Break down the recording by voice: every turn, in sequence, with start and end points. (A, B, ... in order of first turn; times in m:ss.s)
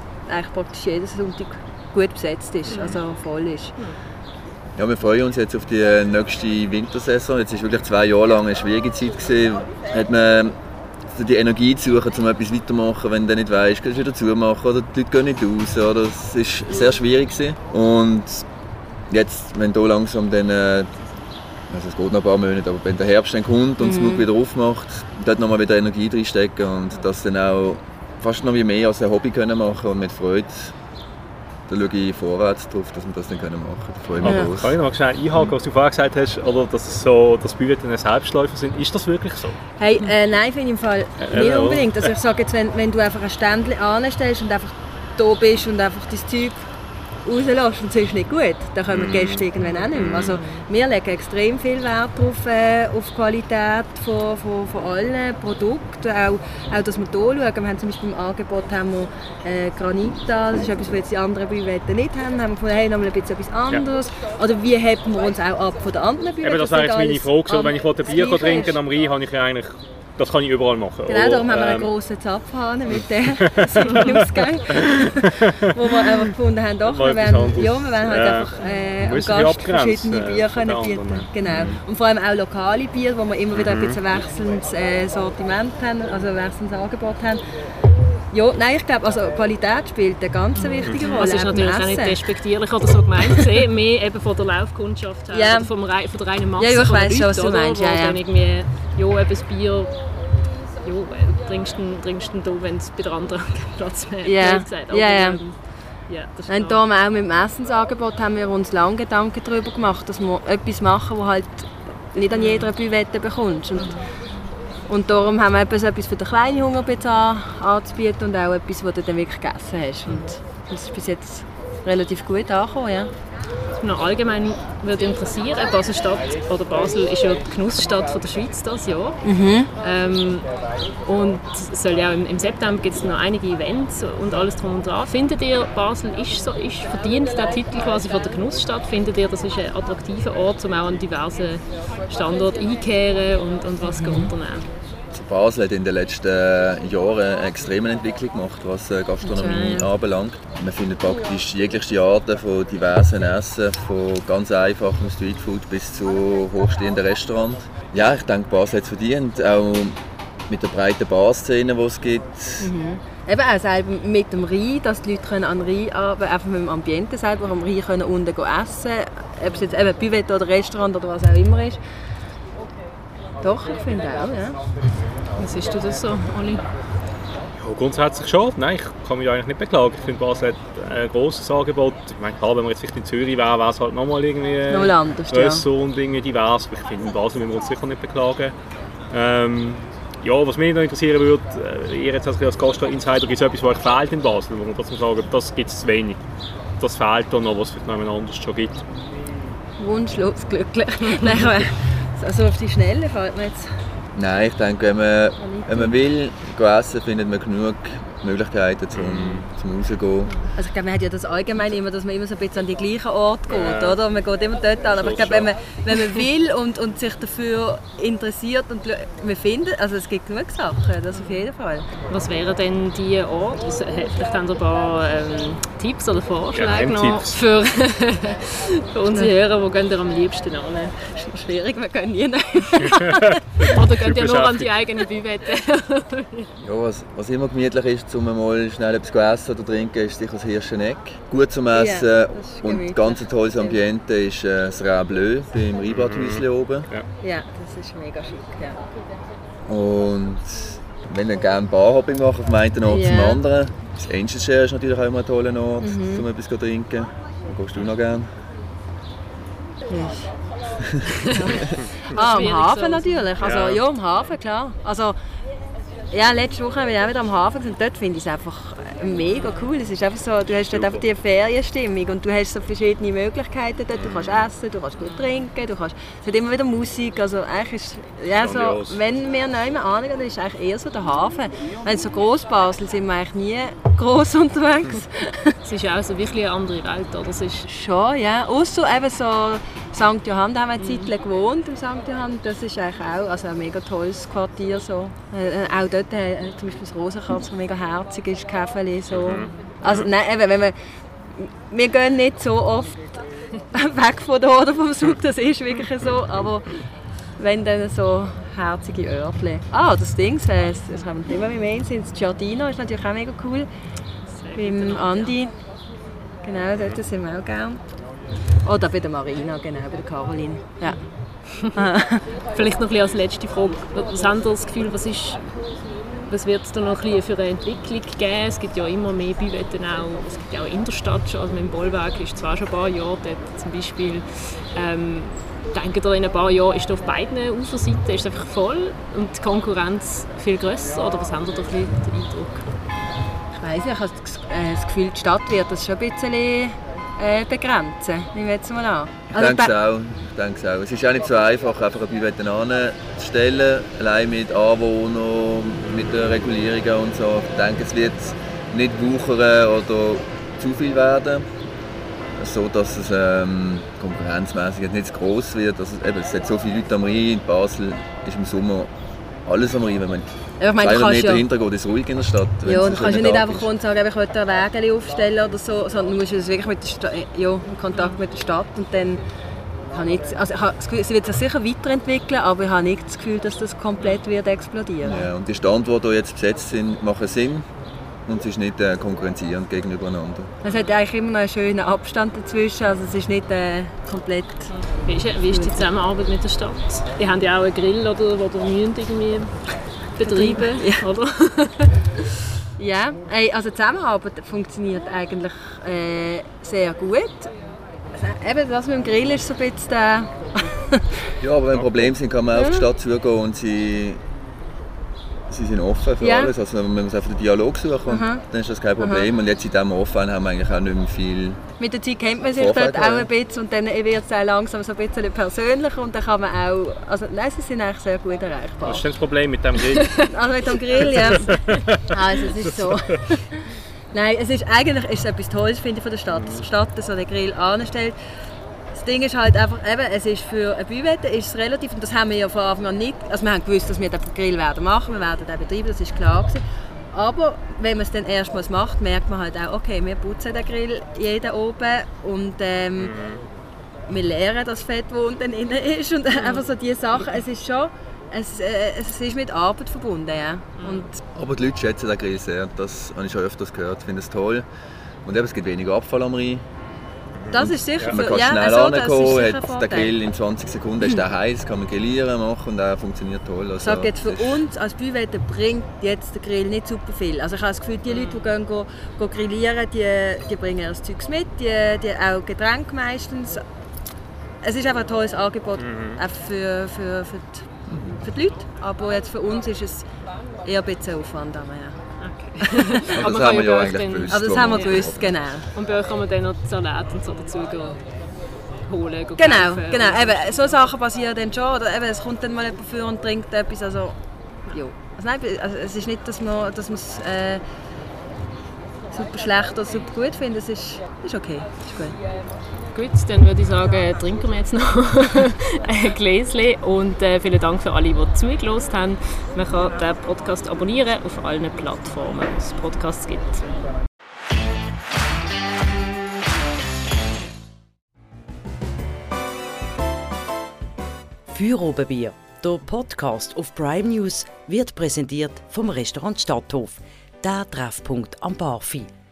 0:00.3-0:03.8 A
0:02.7-0:03.0 B
0:04.8-0:10.6 C
0:11.1-0:18.5 C
0:19.1-0:20.9 C
0:21.7-0:30.7 C
0:23.8-0:24.3 A
0:31.7-0:34.8 C
0:34.2-0:39.6 B
0:34.2-0:34.5 A
0:39.8-0:46.6 A
0:41.2-0:42.1 B
0:47.2-1:08.8 A
0:48.9-0:50.4 B
0:50.3-0:50.6 D
1:06.4-1:11.9 B
1:11.1-1:27.4 A
1:12.9-1:16.2 B
1:16.8-1:21.8 B
1:23.5-1:24.0 B
1:28.3-1:32.2 A
1:30.6-1:40.0 D
1:30.8-1:31.2 B
1:35.3-1:35.7 A
1:36.6-1:38.2 A
1:40.8-1:46.8 D
1:44.2-1:45.4 A
1:46.5-1:54.0 A
1:52.3-1:52.7 D
1:53.8-1:54.0 D
1:54.9-2:03.1 A
2:03.8-2:09.2 D
2:09.2-2:09.7 A
2:09.8-2:10.5 D
2:11.1-2:24.7 D
2:23.8-2:24.3 A
2:25.1-2:40.0 C
2:29.2-2:29.9 A
2:40.5-2:42.7 C
2:42.6-2:51.8 A
2:53.4-2:54.6 A
2:55.4-2:56.6 D
2:57.6-3:08.5 B
3:04.7-3:05.6 A
3:09.1-3:16.2 B
3:16.8-3:18.8 B
3:19.8-3:23.8 A
3:24.1-3:30.4 C
3:25.4-3:26.0 A
3:28.9-3:29.5 B
3:30.6-3:41.9 A
3:33.5-3:34.0 B
3:35.0-3:35.5 B
3:41.1-3:41.5 D
3:42.1-3:51.1 D
3:46.5-3:47.4 B
3:51.1-3:53.6 A
3:52.8-3:54.7 B
3:53.6-3:56.5 D
3:56.6-4:06.9 C
4:01.7-4:03.8 A
4:05.9-4:07.1 B
4:07.2-4:08.8 A
4:09.7-4:18.3 C
4:12.9-4:13.4 A
4:15.8-4:16.2 A
4:19.9-4:20.3 A
4:20.8-4:21.8 C
4:21.2-4:23.3 D
4:21.3-4:25.2 A
4:23.4-4:23.8 B
4:26.1-4:45.6 A
4:29.3-4:29.7 D
4:30.7-4:31.0 B
4:34.0-4:34.5 B
4:35.0-4:35.4 D
4:38.4-4:39.0 B
4:45.6-4:47.7 D
4:47.7-5:00.8 A
4:50.8-4:51.1 D
4:59.1-5:00.1 B
5:01.4-5:06.7 A
5:07.4-5:13.7 A
5:14.3-5:15.4 D
5:14.6-5:15.5 A
5:16.4-5:17.8 A
5:18.6-5:21.0 A
5:21.7-5:22.3 A
5:22.5-5:25.4 D
5:26.3-5:42.6 D
5:43.6-5:49.7 A
5:49.3-6:01.5 C
6:02.4-6:08.9 C
6:09.5-6:13.7 C
6:10.6-6:11.4 A
6:12.6-6:19.2 A
6:19.9-6:25.3 A
6:25.0-6:27.7 C
6:28.3-6:30.5 C
6:30.6-6:34.7 A
6:30.6-6:30.9 D
6:34.7-6:39.6 D
6:35.4-6:35.8 A
6:40.2-6:42.0 D
6:40.2-6:41.0 A
6:42.8-6:47.5 A
6:48.2-6:51.3 A
6:51.4-6:54.2 C
6:52.5-6:52.9 A
6:55.5-7:01.6 C
6:56.2-6:56.5 A
6:58.1-6:58.4 A
6:59.0-6:59.3 A
7:01.8-7:09.1 A
7:02.5-7:03.3 C
7:08.8-7:10.3 B
7:10.2-7:11.6 A
7:10.9-7:13.2 B
7:12.1-7:18.2 A
7:16.3-7:16.7 B
7:18.9-7:26.6 A
7:27.1-7:33.2 A
7:33.0-7:33.4 B
7:34.1-7:41.2 A
7:41.3-7:44.7 C
7:45.3-7:46.6 C
7:47.4-7:48.2 B
7:47.5-7:50.1 A
7:47.5-7:54.6 C
7:53.8-8:03.6 A
7:58.1-7:58.5 D
8:04.6-8:07.7 A
8:05.8-8:06.2 B
8:07.9-8:08.2 C
8:08.2-8:10.1 A
8:10.6-8:12.0 A
8:12.2-8:15.1 D
8:12.6-8:13.1 A
8:13.1-8:15.4 C
8:14.3-8:15.6 A
8:15.7-8:18.0 D
8:18.9-8:20.8 D
8:19.4-8:24.2 A
8:24.7-8:27.6 A
8:29.1-8:32.2 A
8:32.9-8:43.6 D
8:51.5-8:59.1 E